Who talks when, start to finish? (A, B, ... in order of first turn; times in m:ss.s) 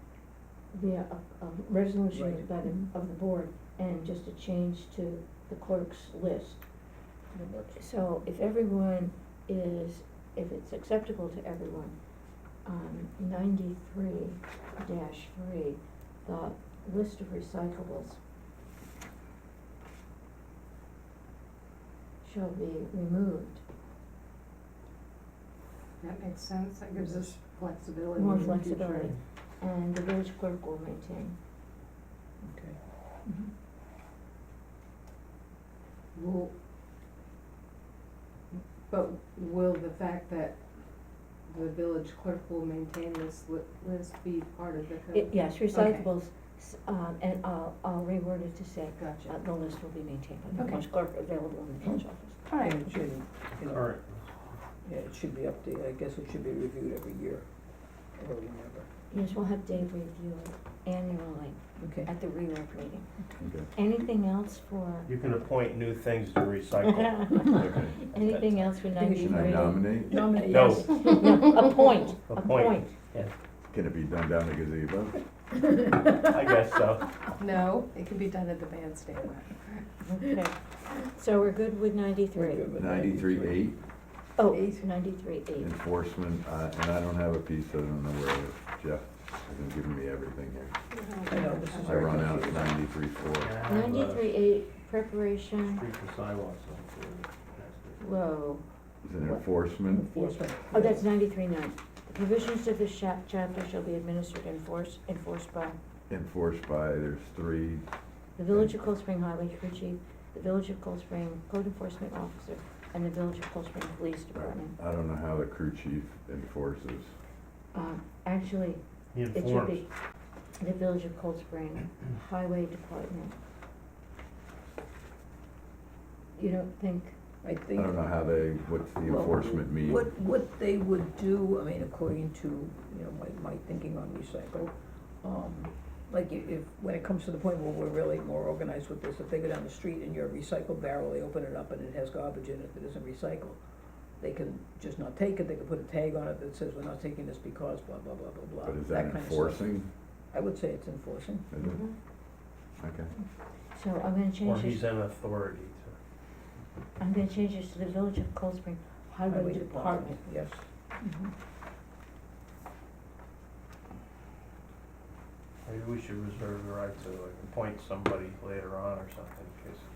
0:00.7-0:06.7 A
0:02.1-0:02.8 B
0:07.3-0:07.8 B
0:07.7-0:12.0 A
0:12.6-0:18.2 A
0:22.2-0:23.6 A
0:26.0-0:29.2 C
0:28.2-0:31.4 A
0:32.4-0:32.8 B
0:36.1-0:36.5 C
0:38.5-0:40.6 C
0:41.4-0:46.1 C
0:45.1-0:52.4 A
0:49.0-0:49.4 C
0:50.6-0:50.8 C
0:51.8-0:54.0 B
0:52.5-0:52.9 C
0:53.6-0:54.3 D
0:54.8-0:57.4 B
0:58.2-0:58.9 B
0:59.1-1:03.1 A
1:01.8-1:02.1 B
1:03.4-1:03.7 E
1:03.7-1:05.1 A
1:05.1-1:08.6 D
1:06.9-1:09.8 A
1:08.9-1:11.7 B
1:09.2-1:10.2 E
1:10.5-1:10.9 D
1:10.5-1:13.0 A
1:12.3-1:13.3 D
1:13.7-1:15.2 E
1:16.1-1:17.2 D
1:17.4-1:19.9 C
1:20.1-1:22.6 A
1:22.3-1:23.7 B
1:22.8-1:23.8 E
1:24.4-1:25.7 A
1:24.4-1:24.9 C
1:25.6-1:30.7 E
1:30.9-1:32.5 C
1:31.3-1:32.8 B
1:31.8-1:33.6 E
1:33.4-1:34.3 D
1:33.6-1:35.8 A
1:35.7-1:38.0 D
1:38.0-1:38.7 A
1:39.0-1:40.1 E
1:39.9-1:41.1 B
1:40.1-1:45.8 A
1:46.1-1:47.8 E
1:48.4-1:54.8 A
1:54.4-1:57.1 E
1:57.7-1:59.9 A
1:59.1-1:59.8 D
2:00.6-2:03.4 A
2:06.4-2:07.2 A
2:07.4-2:08.0 B
2:07.8-2:10.0 E
2:09.0-2:23.6 B
2:24.2-2:29.8 B
2:28.6-2:29.9 E
2:30.3-2:31.5 B
2:31.5-2:32.0 E
2:31.6-2:32.0 A
2:32.8-2:33.1 E
2:33.7-2:34.9 A
2:34.4-2:36.0 D
2:37.0-2:40.2 A
2:39.3-2:41.3 B
2:45.6-2:49.8 D